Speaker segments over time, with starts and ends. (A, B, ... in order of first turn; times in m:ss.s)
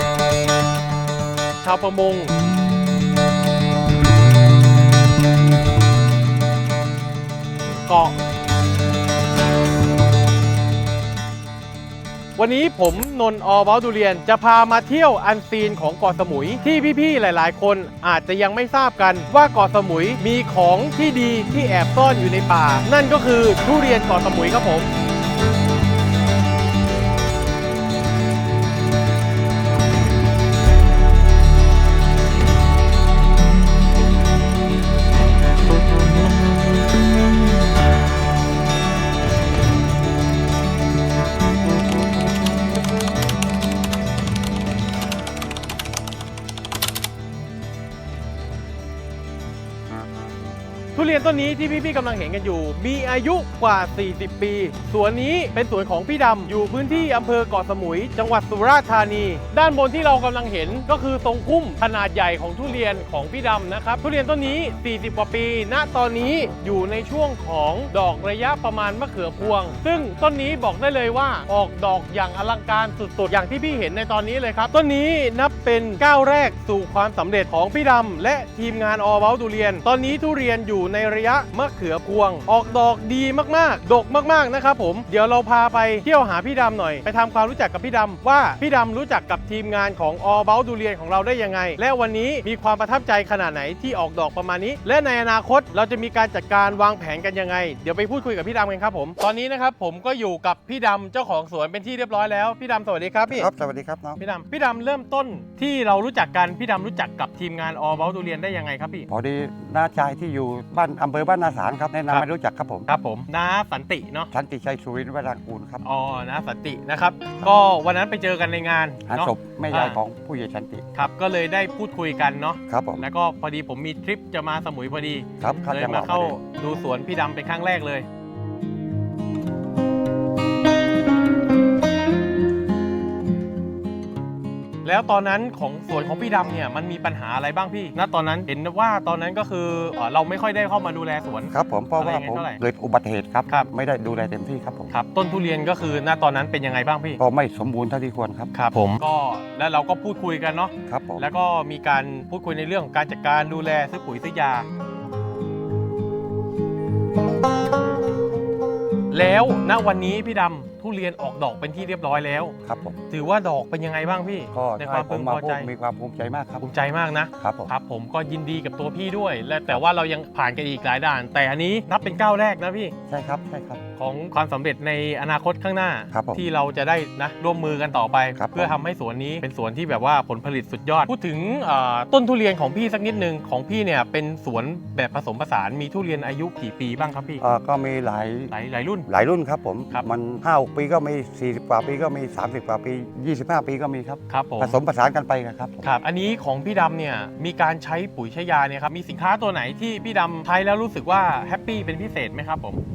0:01.6-0:02.3 A
0:07.9-0:08.1 A
0:12.4-0:24.9 A
0:50.9-1:43.5 A
1:43.3-1:44.2 B
1:44.2-1:49.1 A
1:49.1-1:52.9 B
1:52.9-1:54.3 A
1:54.3-1:55.8 B
1:55.8-2:00.0 A
1:59.1-2:00.9 B
2:00.9-2:08.0 A
2:02.7-2:03.0 B
2:05.4-2:06.4 B
2:14.8-2:22.6 A
2:21.5-2:24.9 B
2:24.9-2:27.2 A
2:27.2-2:28.5 B
2:28.5-2:34.7 A
2:30.9-2:31.2 B
2:39.1-2:42.6 A
2:42.6-2:43.0 B
2:43.1-2:45.7 A
2:44.5-2:46.7 B
2:46.6-2:52.9 A
2:47.4-2:47.7 B
2:53.1-2:53.8 B
2:54.0-3:07.4 A
2:56.1-2:56.4 B
2:58.4-2:58.8 B
3:07.4-3:08.5 B
3:08.5-3:09.1 A
3:09.1-3:15.9 B
3:14.3-3:14.8 A
3:15.8-3:22.8 A